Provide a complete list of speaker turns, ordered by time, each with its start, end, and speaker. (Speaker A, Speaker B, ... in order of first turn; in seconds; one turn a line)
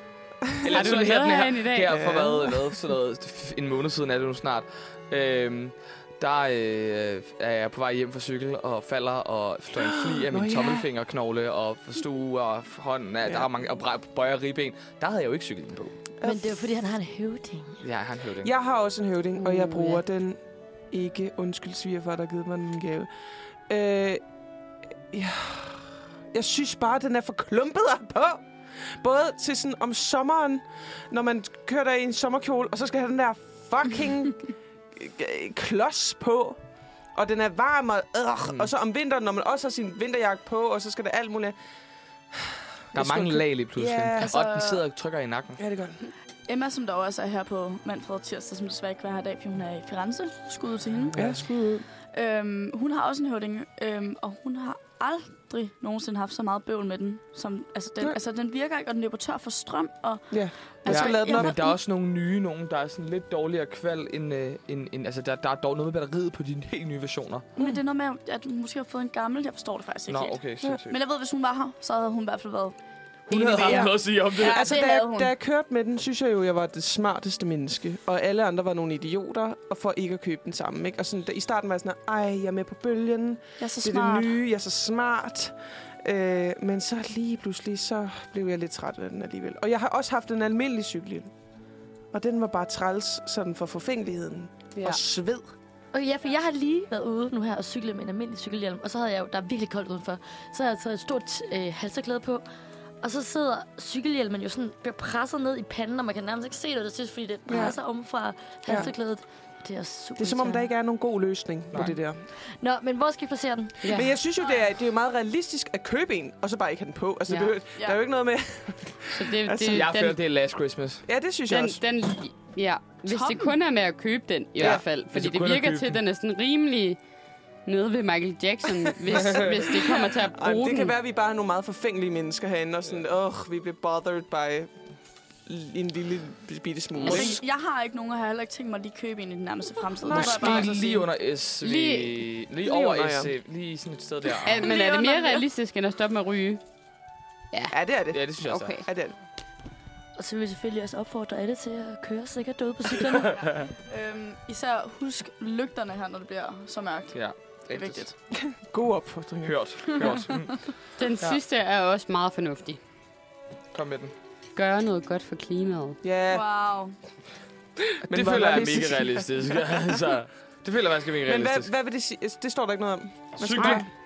Speaker A: 0.5-1.0
Speaker B: 0.6-15.9
Speaker C: 0.7-2.0
Speaker A: 1.9-2.7
Speaker A: 9.8-10.9
Speaker A: 13.2-13.5
Speaker A: 16.2-16.6
Speaker D: 16.2-17.8
Speaker B: 17.8-18.5
Speaker A: 18.4-20.4
Speaker C: 19.4-20.0
Speaker A: 20.9-23.1
Speaker A: 23.7-24.2
Speaker A: 25.1-28.4
Speaker A: 29.0-36.6
Speaker A: 37.1-41.6
Speaker A: 42.3-44.5
Speaker B: 42.9-45.6
Speaker E: 44.2-44.8
Speaker A: 45.6-46.0
Speaker E: 46.5-51.4
Speaker A: 51.1-51.9
Speaker E: 52.0-61.7
Speaker A: 60.3-61.6
Speaker B: 60.9-67.5
Speaker E: 67.6-72.8
Speaker B: 70.1-71.0
Speaker B: 73.3-74.8
Speaker A: 73.3-91.3
Speaker E: 73.5-75.3
Speaker E: 83.6-84.3
Speaker A: 92.1-95.5
Speaker D: 95.9-102.4
Speaker D: 103.0-110.7
Speaker A: 107.5-107.8
Speaker A: 108.7-108.9
Speaker A: 110.2-112.2
Speaker B: 111.7-112.0
Speaker D: 112.6-114.0
Speaker C: 113.8-114.1
Speaker A: 113.8-119.9
Speaker C: 119.2-120.2
Speaker B: 119.7-121.1
Speaker A: 121.1-121.8
Speaker C: 121.5-127.0
Speaker E: 123.1-123.6
Speaker B: 124.6-126.0
Speaker C: 127.7-130.9
Speaker A: 129.1-129.6
Speaker A: 130.3-134.8
Speaker A: 135.5-137.4
Speaker E: 137.0-141.1
Speaker C: 137.0-137.3
Speaker A: 140.1-140.9
Speaker B: 140.1-144.7
Speaker C: 141.6-142.2
Speaker A: 142.6-143.3
Speaker C: 144.4-146.6
Speaker E: 144.6-145.5
Speaker A: 147.7-149.2
Speaker B: 148.1-148.7
Speaker C: 148.5-148.8
Speaker D: 150.2-153.4
Speaker B: 153.3-153.7
Speaker E: 153.9-158.2
Speaker B: 157.1-158.1
Speaker A: 158.4-160.3
Speaker B: 159.4-160.7
Speaker C: 161.0-162.8
Speaker B: 163.7-164.1
Speaker C: 164.6-166.0
Speaker A: 166.0-166.4
Speaker E: 166.3-166.9
Speaker A: 168.1-169.8
Speaker B: 168.1-171.7
Speaker A: 171.2-173.9
Speaker B: 173.4-173.9